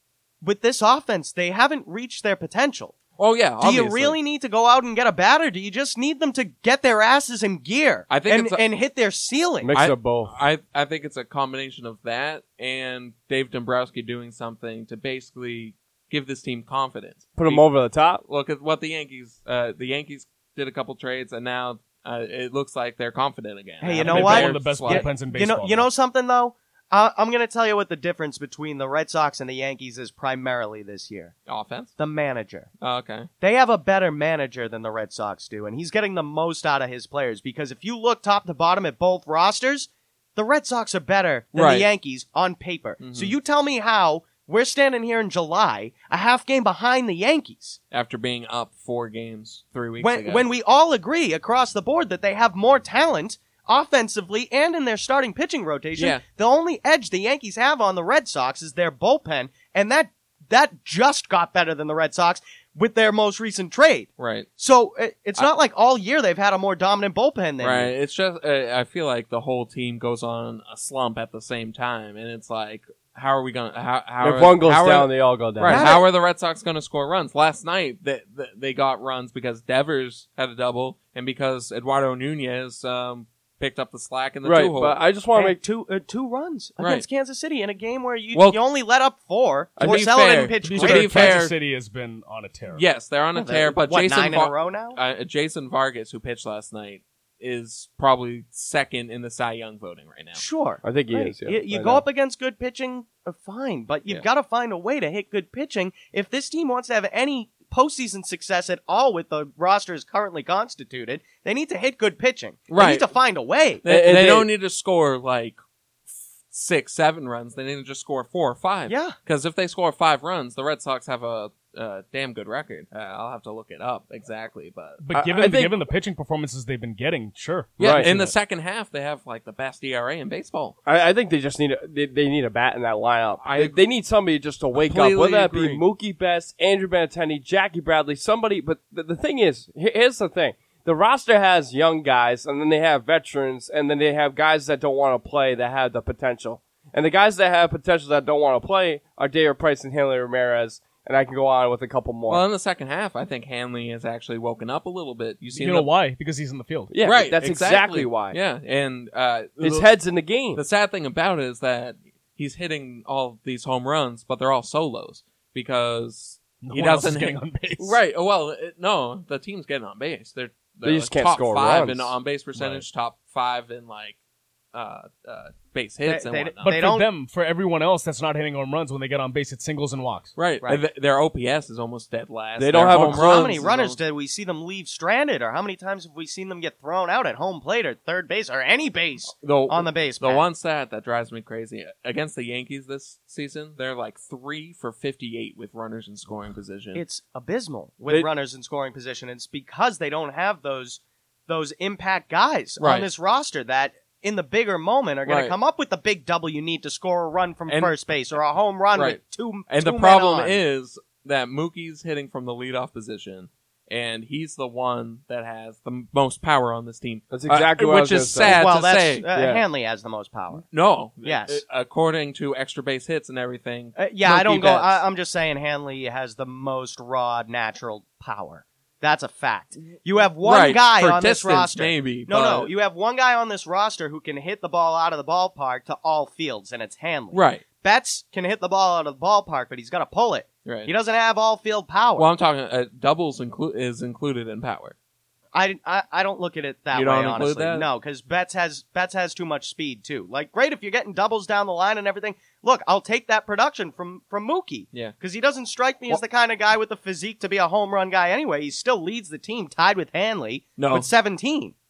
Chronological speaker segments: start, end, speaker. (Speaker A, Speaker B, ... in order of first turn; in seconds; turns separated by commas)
Speaker A: 0.4-3.0, Speaker B: 3.2-4.2, Speaker A: 3.6-9.7, Speaker B: 8.1-8.6, Speaker C: 9.6-10.3, Speaker B: 9.8-17.7, Speaker C: 17.4-18.2, Speaker B: 18.2-25.1, Speaker A: 23.8-31.3, Speaker D: 23.9-25.9, Speaker B: 31.5-31.9, Speaker A: 32.0-32.7, Speaker B: 32.8-33.3, Speaker A: 33.4-47.8, Speaker B: 41.5-41.9, Speaker B: 43.0-43.4, Speaker B: 47.9-50.5, Speaker A: 50.0-67.9, Speaker B: 56.0-56.2, Speaker B: 64.2-64.5, Speaker B: 67.6-85.0, Speaker C: 74.2-75.9, Speaker A: 75.7-76.0, Speaker C: 84.4-85.6, Speaker A: 85.3-91.4, Speaker B: 86.8-87.0, Speaker B: 88.3-88.6, Speaker C: 89.8-90.0, Speaker B: 89.8-91.5, Speaker D: 90.6-92.8, Speaker B: 92.7-100.4, Speaker A: 93.3-95.0, Speaker A: 100.3-113.8, Speaker C: 100.8-102.0, Speaker B: 112.7-113.1, Speaker B: 113.8-115.6, Speaker C: 113.9-114.5, Speaker B: 116.5-125.0, Speaker A: 118.9-119.2, Speaker D: 125.0-128.3, Speaker C: 125.1-125.8, Speaker B: 127.8-130.8, Speaker C: 127.8-128.1, Speaker C: 130.8-152.4, Speaker B: 133.4-133.8, Speaker B: 134.7-135.8, Speaker B: 152.3-155.9, Speaker D: 155.5-156.9, Speaker C: 156.9-158.4, Speaker B: 157.0-159.9, Speaker C: 159.6-160.6, Speaker B: 160.6-174.2, Speaker D: 166.6-168.0, Speaker C: 170.8-172.1, Speaker B: 174.7-176.7, Speaker A: 176.1-177.1, Speaker D: 176.6-180.3, Speaker B: 180.4-184.0, Speaker C: 182.6-183.7, Speaker A: 182.8-190.4, Speaker B: 189.3-197.0, Speaker A: 196.9-210.6, Speaker B: 202.8-203.1, Speaker B: 205.3-205.6, Speaker B: 207.7-207.9, Speaker B: 208.9-219.2, Speaker C: 217.3-218.6, Speaker A: 218.5-220.6, Speaker C: 219.3-219.6, Speaker B: 220.7-224.0, Speaker A: 221.2-221.6, Speaker A: 224.0-242.3, Speaker C: 224.2-225.0, Speaker B: 230.4-232.7, Speaker B: 237.3-237.6, Speaker B: 240.7-240.9, Speaker B: 242.2-244.9, Speaker A: 245.5-261.8, Speaker B: 246.9-247.9, Speaker B: 260.8-261.1